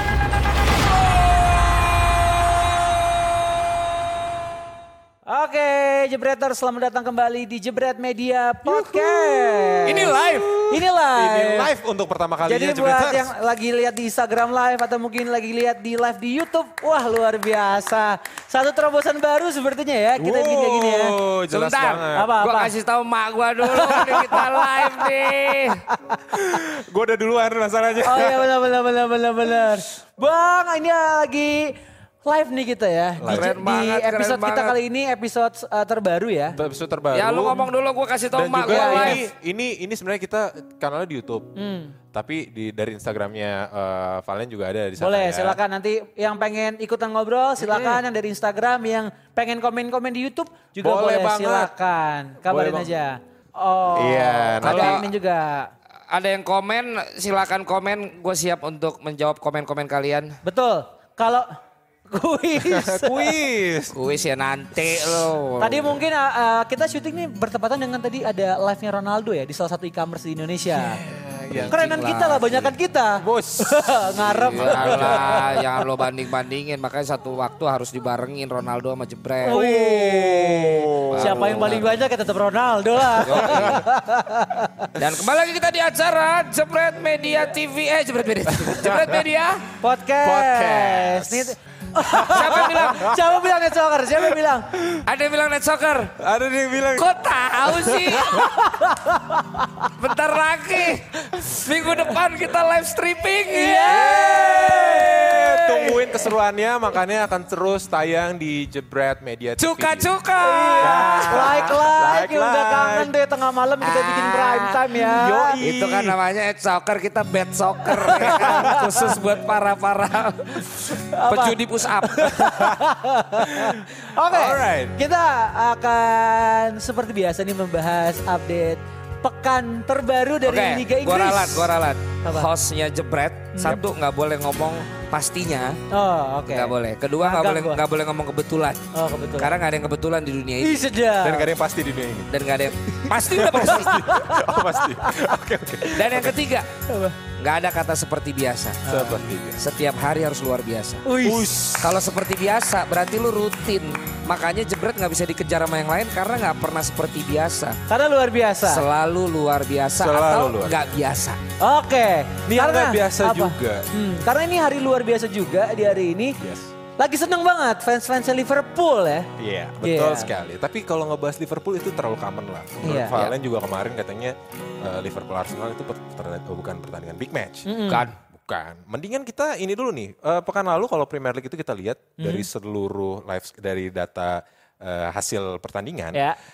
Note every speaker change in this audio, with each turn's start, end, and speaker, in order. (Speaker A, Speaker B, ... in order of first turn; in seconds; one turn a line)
Speaker A: 5.3-11.7
Speaker B: 8.7-13.3
Speaker C: 10.1-10.4
Speaker A: 12.4-21.2
Speaker B: 20.2-22.3
Speaker C: 21.5-25.8
Speaker A: 22.1-22.7
Speaker A: 23.7-25.1
Speaker A: 25.9-26.2
Speaker B: 26.3-28.4
Speaker A: 28.0-36.6
Speaker B: 33.2-33.5
Speaker C: 33.3-34.8
Speaker B: 36.5-37.7
Speaker C: 37.1-39.2
Speaker B: 38.4-41.5
Speaker A: 38.6-39.2
Speaker A: 41.6-42.0
Speaker B: 42.1-45.6
Speaker A: 45.0-55.7
Speaker B: 47.6-48.0
Speaker B: 50.8-51.7
Speaker B: 52.5-52.9
Speaker B: 53.9-55.0
Speaker C: 54.6-55.1
Speaker C: 56.1-60.4
Speaker A: 60.4-61.6
Speaker A: 62.1-63.3
Speaker B: 62.6-64.0
Speaker C: 63.9-66.0
Speaker A: 65.6-71.0
Speaker B: 70.7-71.8
Speaker C: 71.5-72.7
Speaker A: 71.7-75.6
Speaker B: 73.2-75.7
Speaker C: 74.5-79.7
Speaker A: 79.4-84.9
Speaker B: 79.5-81.9
Speaker C: 81.1-81.9
Speaker C: 83.2-83.8
Speaker B: 83.3-83.8
Speaker C: 85.0-89.6
Speaker B: 88.5-89.2
Speaker A: 89.8-94.7
Speaker B: 90.2-93.4
Speaker C: 92.3-93.0
Speaker C: 95.1-96.2
Speaker B: 96.2-97.1
Speaker C: 97.0-98.5
Speaker B: 97.6-98.6
Speaker A: 98.3-99.9
Speaker C: 100.0-105.9
Speaker A: 103.5-106.0
Speaker B: 103.9-110.1
Speaker C: 109.6-111.8
Speaker A: 110.4-115.6
Speaker B: 110.8-113.1
Speaker C: 113.8-114.8
Speaker B: 115.0-116.2
Speaker C: 115.6-122.4
Speaker A: 118.0-119.2
Speaker B: 118.2-118.7
Speaker A: 120.6-131.7
Speaker B: 122.3-122.8
Speaker B: 123.4-125.0
Speaker C: 130.5-135.8
Speaker A: 132.2-132.5
Speaker A: 135.9-137.8
Speaker C: 136.5-138.9
Speaker A: 138.9-139.5
Speaker C: 139.4-140.9
Speaker A: 140.6-141.5
Speaker B: 141.2-142.3
Speaker C: 142.3-144.0
Speaker B: 143.1-146.4
Speaker A: 143.6-145.2
Speaker C: 145.9-146.7
Speaker A: 146.9-147.2
Speaker C: 147.4-148.8
Speaker A: 148.8-149.2
Speaker B: 148.8-149.7
Speaker C: 149.6-151.1
Speaker A: 151.0-151.6
Speaker B: 151.2-152.0
Speaker C: 151.8-157.8
Speaker A: 157.9-158.8
Speaker C: 158.6-161.4
Speaker B: 160.0-160.8
Speaker A: 161.6-166.4
Speaker B: 162.5-163.9
Speaker B: 166.4-166.7
Speaker A: 167.0-169.3
Speaker B: 169.4-186.2
Speaker A: 169.8-170.3
Speaker A: 172.8-173.2
Speaker C: 173.1-173.3
Speaker A: 177.7-178.1
Speaker C: 177.9-178.2
Speaker A: 182.2-182.5